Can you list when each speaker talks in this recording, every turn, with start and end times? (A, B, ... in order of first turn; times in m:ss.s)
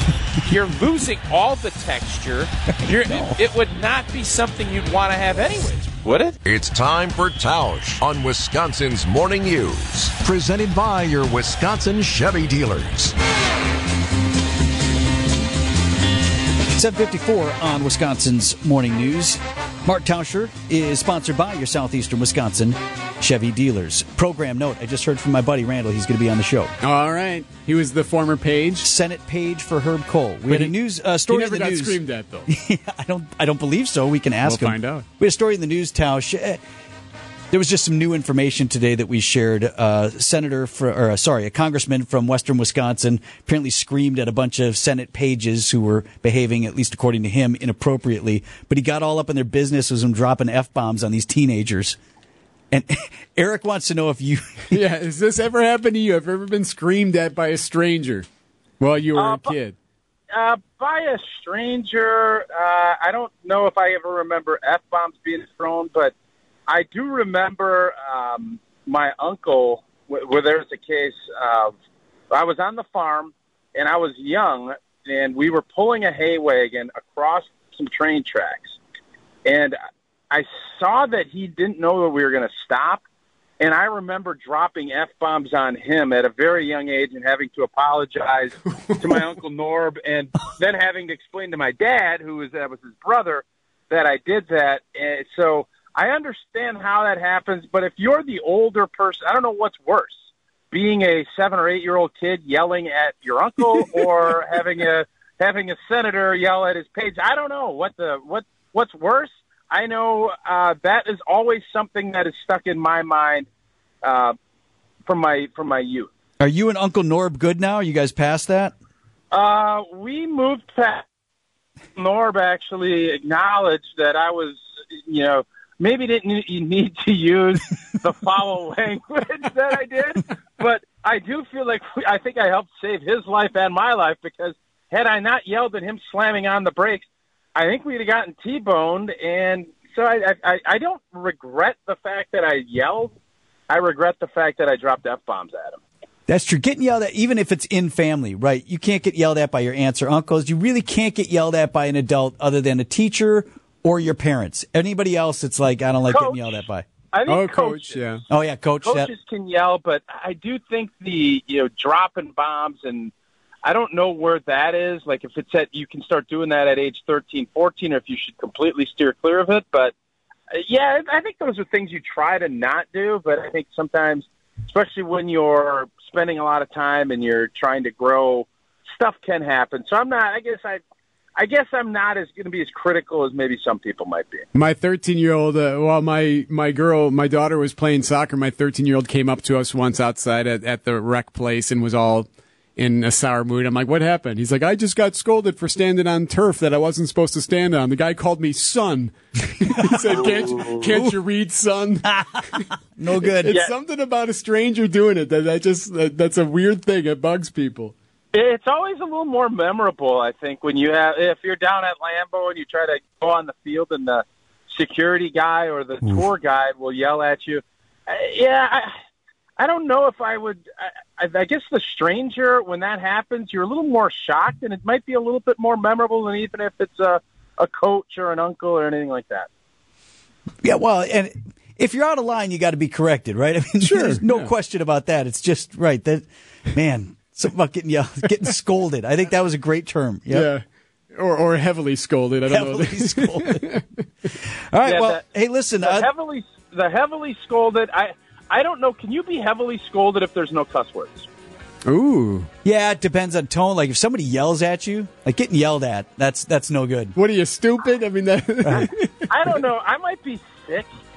0:00.4-0:06.4 A
0:02.8-0:03.4 B
0:06.4-0:13.1 C
0:16.8-0:26.7 B
0:26.8-0:28.8 D
0:28.8-0:36.6 B
0:30.5-0:30.7 D
0:31.3-0:32.5 D
0:34.4-0:35.0 D
0:37.5-0:52.0 B
0:52.7-0:54.7 B
0:54.7-0:58.2 D
0:58.8-0:59.8 D
0:59.1-0:59.6 E
1:00.3-1:06.1 E
1:06.7-1:11.8 E
1:12.3-1:18.8 E
1:19.4-1:19.8 E
1:20.3-1:23.0 E
1:23.6-1:40.2 E
1:40.7-1:53.5 E
1:54.0-1:54.3 E
1:55.0-1:56.1 E
1:56.4-1:58.7 B
1:59.3-2:01.0 E
2:02.0-2:23.1 E
2:23.7-2:25.8 E
2:26.3-2:36.8 B
2:36.1-2:36.6 E
2:37.1-2:38.0 E
2:37.3-2:38.2 D
2:38.3-2:39.1 B
2:38.8-2:43.1 E
2:43.6-2:49.9 E
2:50.5-3:00.8 E
3:01.4-3:04.4 E
3:04.5-3:22.6 D
3:22.0-3:23.6 B
3:23.2-3:27.9 D
3:28.3-3:38.9 E
3:39.6-3:49.5 E
3:50.6-4:00.5 B
3:53.8-3:54.5 D
4:00.3-4:03.8 D
4:02.5-4:03.6 B
4:04.4-4:06.1 B
4:04.8-4:05.2 E
4:05.8-4:11.3 E
4:11.8-4:12.5 D
4:12.6-4:17.1 B
4:17.1-4:19.3 D
4:18.6-4:18.9 B
4:19.3-4:20.9 E